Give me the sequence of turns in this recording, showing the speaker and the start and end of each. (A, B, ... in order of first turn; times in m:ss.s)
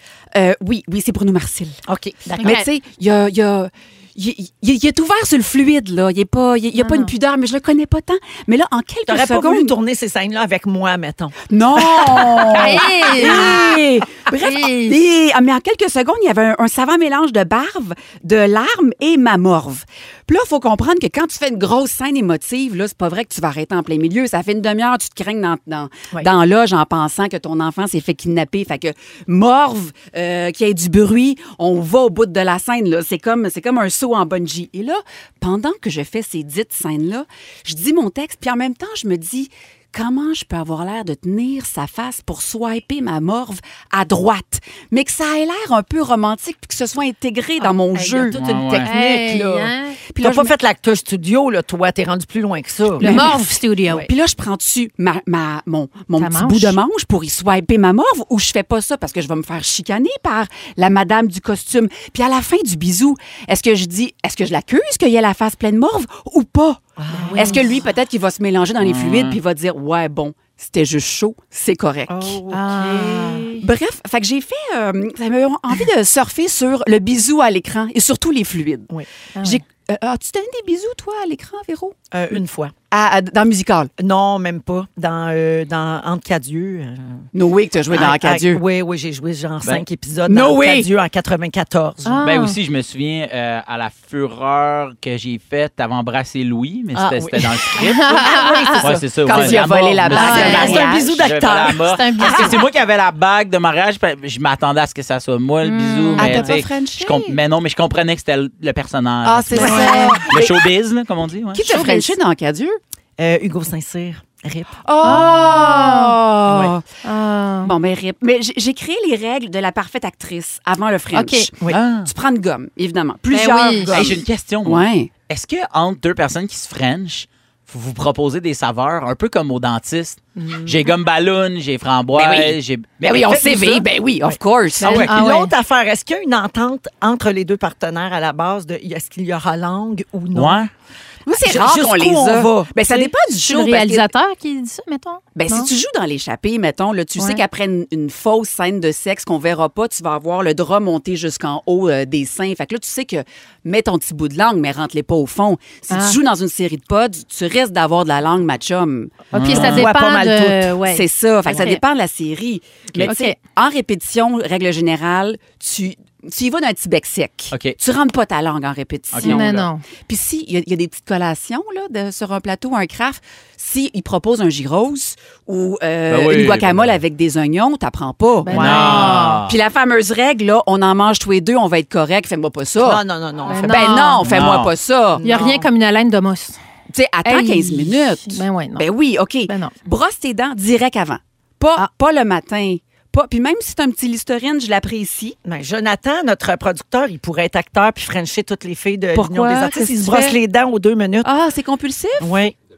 0:00.3-0:01.8 A
0:01.8-0:02.6 B
0:02.4-0:02.6 C
0:02.4-0:09.7 A
0:06.8-0:07.1 C
0:09.1-0:13.8 B
0:11.5-0:50.5 A
0:12.5-0:13.6 C
0:14.4-0:15.0 C
0:47.6-0:49.3 B
0:48.3-0:48.9 D
0:48.8-0:50.0 C
0:50.2-0:53.2 B
0:53.0-0:53.4 A
0:53.0-0:54.0 C
0:54.0-1:06.8 A
0:56.2-0:56.8 C
1:07.0-1:07.7 B
1:07.2-1:07.6 C
1:07.3-1:12.4 A
1:08.8-1:09.4 D
1:12.1-1:13.6 B
1:12.5-1:13.4 C
1:13.6-1:22.0 A
1:19.4-1:19.6 C
1:22.1-1:22.7 B
1:22.9-1:23.9 A
1:24.0-1:27.2 B
1:27.3-1:28.6 A
1:27.9-1:32.2 B
1:30.3-1:30.9 A
1:32.0-1:32.6 C
1:32.2-1:51.7 D
1:36.9-1:37.4 B
1:37.8-1:38.8 C
1:38.0-1:41.8 B
1:38.8-1:41.1 A
1:40.1-1:40.9 C
1:41.8-1:42.6 C
1:45.6-1:46.6 C
1:46.2-1:47.4 A
1:49.2-1:50.7 A
1:49.6-1:50.2 C
1:51.5-1:52.8 A
1:51.7-1:52.1 C
1:53.2-1:54.8 B
1:54.8-1:56.8 A
1:55.0-1:56.2 C
1:56.5-1:56.7 B
1:57.0-1:57.7 C
1:57.6-2:05.1 A
2:01.1-2:01.5 C
2:01.7-2:02.1 D
2:03.3-2:04.0 C
2:03.9-2:13.8 D
2:12.1-2:15.1 A
2:14.3-2:20.6 B
2:14.8-2:15.1 D
2:14.8-2:15.5 C
2:20.3-2:20.7 D
2:21.3-2:24.1 A
2:21.3-2:23.1 B
2:23.3-2:25.7 C
2:25.4-3:03.0 A
2:27.2-2:27.4 C
2:35.9-2:36.2 C
2:39.3-2:39.9 D
2:39.4-2:41.8 C
2:39.4-2:40.3 B
2:43.0-2:43.4 C
2:47.5-2:47.8 D
2:49.1-2:49.7 D
2:49.2-2:49.8 C
2:56.1-2:56.9 D
2:58.4-2:59.4 C
2:58.5-2:59.6 D
2:58.5-2:59.0 B
3:02.8-3:04.1 B
3:03.5-3:04.3 C
3:03.6-3:05.2 A
3:04.2-3:04.7 D
3:05.1-3:05.7 B
3:05.2-3:06.6 C
3:06.9-3:15.4 A
3:07.2-3:08.8 C
3:09.4-3:09.7 C
3:15.4-3:21.3 B
3:19.1-3:20.4 A
3:21.2-3:22.4 A
3:22.2-3:22.5 B